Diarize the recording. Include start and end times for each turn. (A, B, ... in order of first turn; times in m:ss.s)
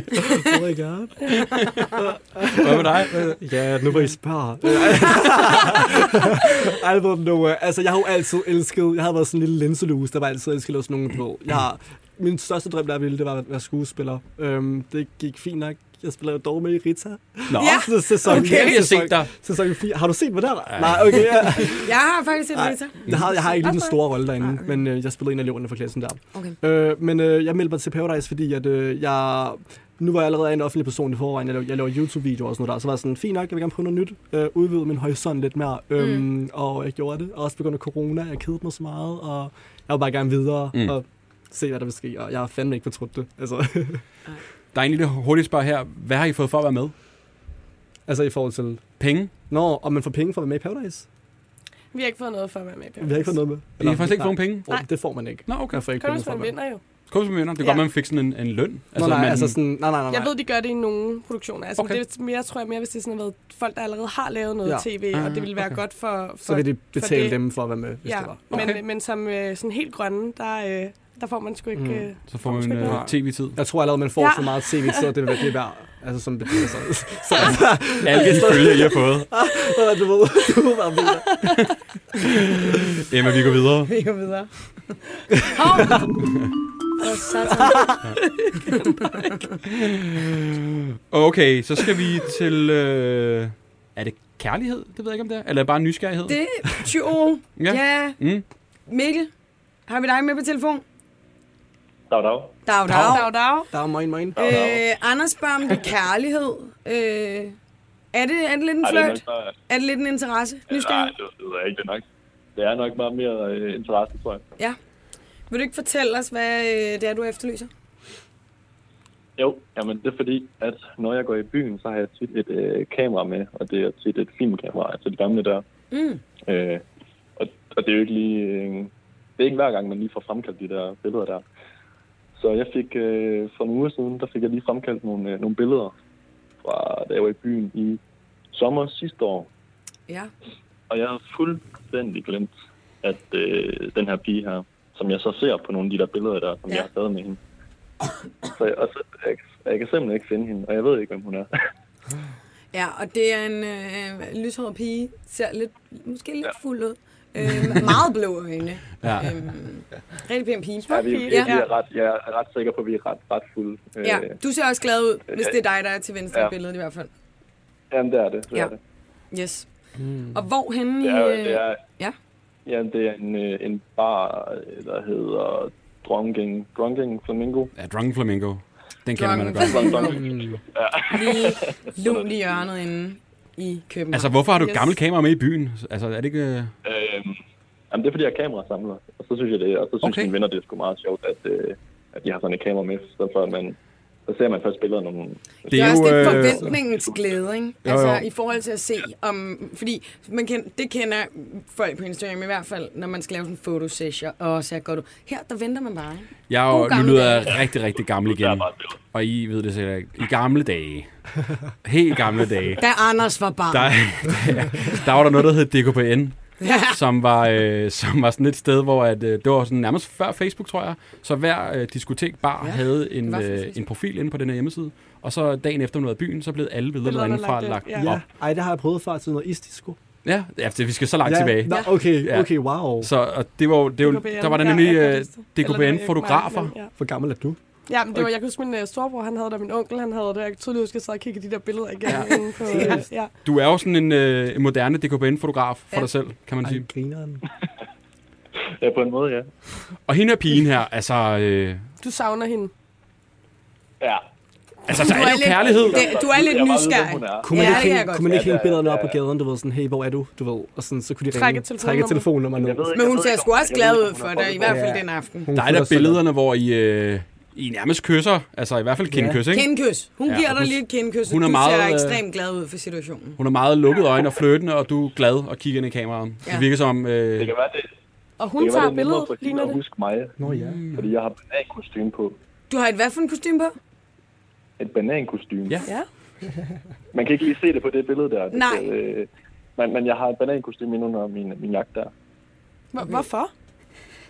0:00.3-0:21.9 A
0:01.4-0:01.9 B
0:02.6-0:03.3 B
0:17.5-0:19.3 B
0:17.6-0:18.8 C
0:20.7-0:21.4 B
0:21.7-0:24.8 C
0:22.5-0:44.0 A
0:36.0-0:36.3 C
0:44.7-0:46.9 B
0:48.1-0:48.8 A
0:49.0-0:49.3 B
0:49.5-0:51.1 A
0:51.9-0:53.4 D
0:53.0-0:56.6 A
0:53.8-0:54.7 B
0:55.5-0:55.8 B
0:55.8-0:56.8 D
0:57.1-0:59.6 B
0:59.0-1:00.3 A
1:00.1-1:07.4 D
1:05.1-1:05.8 B
1:06.4-1:08.7 A
1:08.0-1:13.0 D
1:08.5-1:08.8 B
1:11.8-1:12.1 A
1:12.3-1:13.6 B
1:12.8-1:21.5 A
1:14.2-1:15.1 D
1:18.0-1:19.3 B
1:22.6-1:23.9 B
1:23.9-1:25.0 C
1:25.5-1:26.1 C
1:27.0-1:28.0 C
1:27.7-1:27.9 A
1:28.6-1:29.1 C
1:29.7-1:36.4 B
1:36.3-1:38.2 C
1:37.6-1:38.4 B
1:38.9-1:39.3 C
1:39.9-1:40.8 C
1:42.1-1:42.6 E
1:42.7-1:43.4 C
1:43.0-1:43.7 D
1:43.7-1:44.7 A
1:44.4-1:44.8 E
1:44.4-1:47.6 C
1:48.1-1:51.1 C
1:48.8-1:49.5 E
1:50.7-1:52.0 E
1:52.6-1:54.4 E
1:55.5-1:57.7 C
1:59.4-2:05.6 E
2:05.9-2:06.2 C
2:06.5-2:06.8 E
2:07.4-2:11.4 E
2:12.4-2:15.9 E
2:16.6-2:18.0 E
2:18.5-2:19.5 E
2:20.9-2:22.5 E
2:23.0-2:27.4 E
2:28.4-2:31.5 E
2:32.7-2:41.6 C
2:39.0-2:39.3 B
2:40.9-2:41.7 D
2:40.9-2:44.4 E
2:44.0-2:47.1 C
2:45.3-2:45.6 E
2:47.9-2:48.8 E
2:49.3-2:49.7 C
2:50.0-2:50.4 A
2:50.3-2:52.2 C
2:51.0-2:51.8 E
2:52.7-2:57.7 E
2:57.8-3:00.0 B
2:59.2-3:00.2 C
2:59.7-3:02.6 E
3:00.1-3:00.6 A
3:01.1-3:04.3 C
3:04.1-3:06.7 B
3:04.6-3:04.9 D
3:06.8-3:07.4 E
3:07.9-3:17.2 E
3:10.0-3:10.3 B
3:15.7-3:16.7 B
3:15.7-3:27.6 C
3:17.8-3:18.2 B
3:26.5-3:31.2 B
3:28.2-3:29.0 E
3:31.8-3:32.8 B
3:32.8-3:34.3 C
3:33.7-3:48.2 B
3:36.6-3:37.0 C
3:42.6-3:43.8 C
3:47.0-3:48.1 D
3:48.0-3:50.0 A
3:50.2-3:56.7 B
3:51.2-3:53.1 A
3:54.0-3:56.9 D
3:57.0-3:57.6 A
3:57.9-4:03.3 D
4:02.1-4:02.4 B
4:02.7-4:03.1 A
4:03.4-4:06.9 B
4:06.6-4:07.4 A
4:08.8-4:09.5 E
4:10.1-4:11.9 B
4:12.0-4:12.7 D
4:14.9-4:16.1 B
4:15.0-4:18.4 C
4:15.5-4:19.2 E
4:17.4-4:22.9 A
4:21.3-4:22.3 D
4:22.6-4:25.0 E
4:22.9-4:25.5 C
4:24.6-4:26.2 A
4:25.5-4:29.7 B
4:29.1-4:29.4 A
4:29.5-4:33.4 C
4:30.3-4:32.2 B
4:33.4-4:37.5 B
4:37.4-4:37.9 E
4:38.4-4:39.8 D
4:38.6-4:40.4 E
4:40.4-4:40.8 A
4:40.5-4:41.1 B
4:40.9-4:42.4 E
4:42.7-4:43.8 C
4:44.8-4:45.8 E
4:47.1-4:52.1 E
4:48.5-4:48.9 C
4:52.9-4:53.5 D